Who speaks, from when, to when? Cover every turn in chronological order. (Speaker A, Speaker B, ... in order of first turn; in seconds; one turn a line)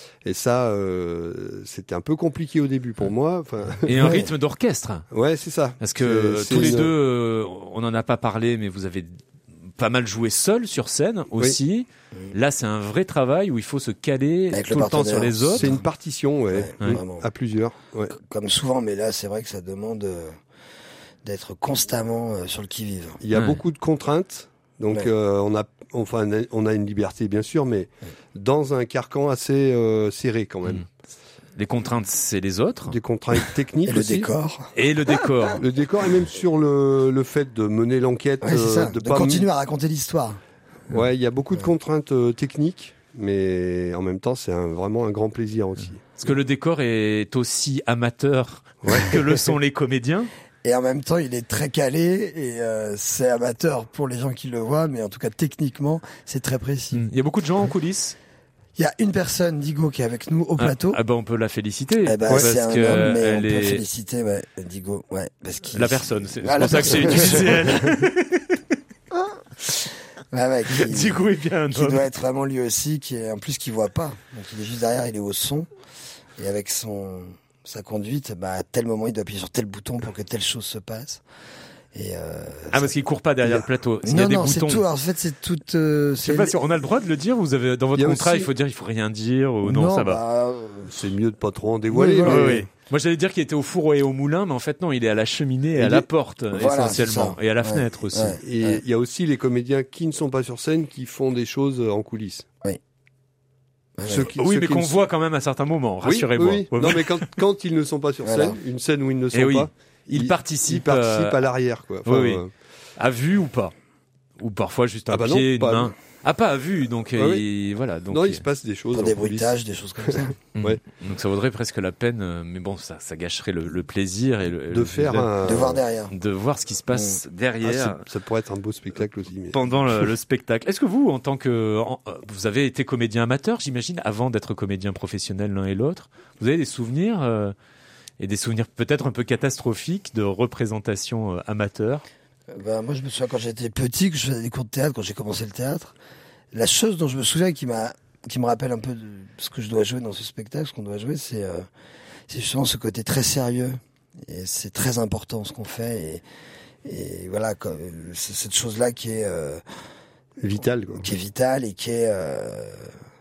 Speaker A: 0.2-4.2
Speaker B: 3.9-5.1
Speaker C: 4.0-4.3
Speaker A: 5.1-6.9
Speaker B: 5.8-9.1
Speaker B: 9.8-15.8
Speaker C: 14.5-15.7
Speaker A: 15.6-18.2
Speaker C: 16.5-17.3
Speaker C: 18.1-20.3
Speaker C: 21.2-23.2
Speaker A: 23.2-30.9
Speaker B: 23.3-23.6
Speaker B: 31.6-33.0
Speaker A: 32.9-34.3
Speaker C: 33.9-34.8
Speaker B: 34.7-35.6
Speaker A: 35.6-39.5
Speaker C: 38.4-40.4
Speaker A: 40.9-46.2
Speaker B: 46.1-50.3
Speaker A: 48.8-49.2
Speaker C: 50.6-57.0
Speaker B: 56.9-58.2
Speaker C: 58.8-61.0
Speaker B: 60.6-63.8
Speaker C: 62.0-68.0
Speaker B: 65.7-68.6
Speaker C: 70.3-75.7
Speaker B: 70.7-72.0
Speaker C: 76.4-81.2
Speaker C: 81.9-86.7
Speaker B: 82.7-84.8
Speaker B: 86.2-90.2
Speaker A: 88.0-88.5
Speaker C: 89.6-91.0
Speaker A: 90.9-92.7
Speaker C: 91.9-92.6
Speaker B: 92.2-98.4
Speaker A: 95.8-96.1
Speaker C: 96.5-98.8
Speaker A: 98.4-102.5
Speaker C: 104.0-104.3
Speaker A: 104.1-105.0
Speaker B: 104.3-107.4
Speaker A: 106.0-112.5
Speaker C: 108.2-108.6
Speaker B: 109.3-111.4
Speaker B: 112.0-112.4
Speaker B: 113.0-113.7
Speaker B: 114.4-118.5
Speaker A: 115.1-115.9
Speaker A: 117.1-117.5
Speaker A: 118.1-120.8
Speaker C: 118.9-120.4
Speaker B: 120.5-125.4
Speaker A: 124.7-125.8
Speaker C: 125.4-126.1
Speaker B: 126.1-128.1
Speaker C: 126.9-127.2
Speaker A: 127.6-130.1
Speaker B: 129.5-137.5
Speaker B: 138.2-142.0
Speaker C: 142.5-145.9
Speaker C: 146.5-151.6
Speaker C: 152.3-153.8
Speaker C: 154.3-156.2
Speaker C: 156.8-159.6
Speaker A: 160.4-161.1
Speaker C: 160.9-162.9